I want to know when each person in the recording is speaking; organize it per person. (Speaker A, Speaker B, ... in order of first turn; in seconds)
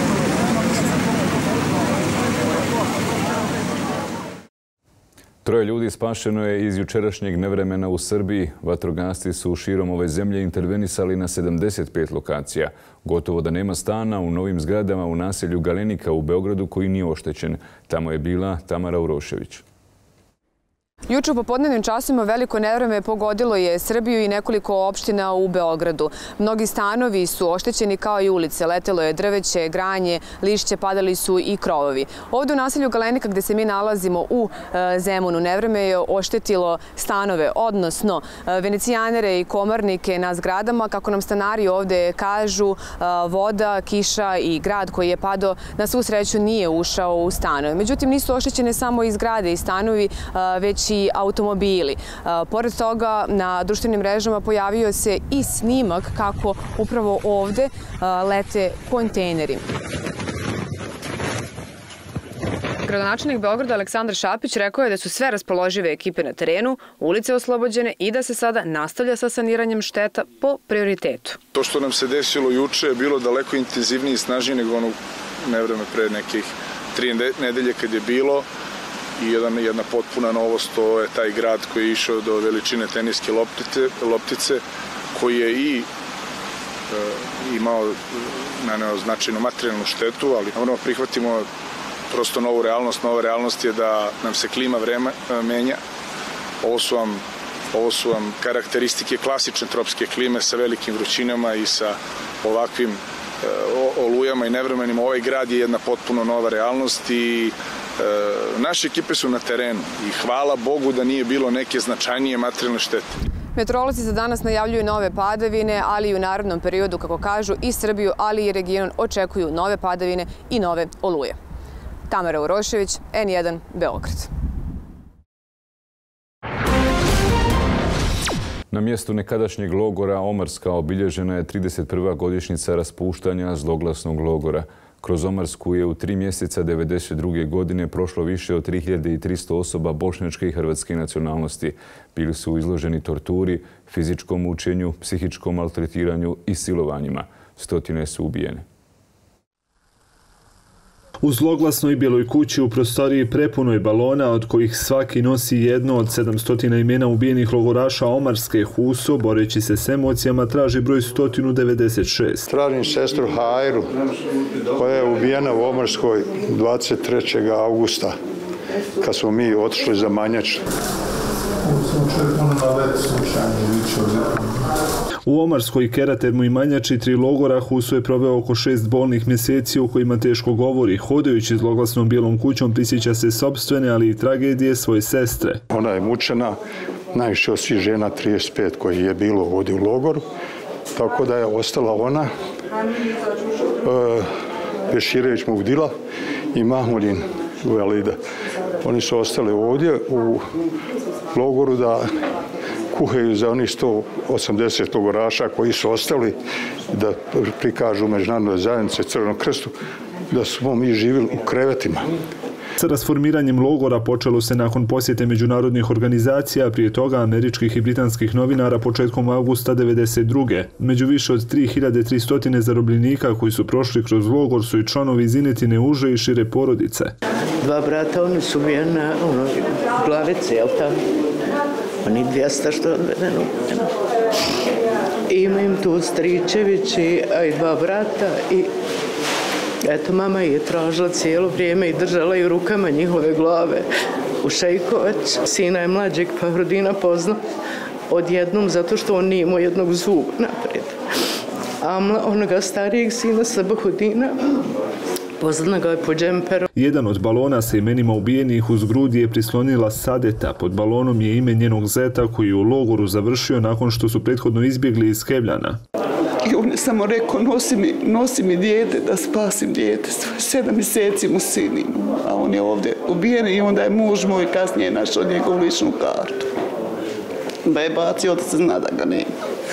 Speaker A: 5.4-19.6, 128.7-148.6
Speaker B: 21.1-59.6, 62.8-71.4, 113.5-121.3, 122.1-124.3
Speaker C: 71.5-78.5, 79.2-84.6, 85.1-85.9, 86.9-88.0, 88.6-91.5, 92.1-95.8, 96.6-113.2
Speaker D: 151.2-162.4, 175.2-185.6, 212.8-227.1, 256.8-265.8
Speaker E: 162.5-163.9, 164.7-168.2, 169.0-170.6, 171.7-174.5, 185.7-186.6, 187.1-190.2, 190.9-192.3, 193.8-194.3, 194.9-195.9, 196.5-198.2, 198.8-200.4, 201.3-202.1, 202.9-206.4, 206.9-209.7, 210.3-212.1
Speaker F: 227.6-230.9, 232.0-233.9, 235.3-238.7, 239.9-243.8, 244.4-247.4, 248.1-251.0, 251.8-254.6, 255.4-256.7
Speaker G: 266.4-276.5, 277.6-279.3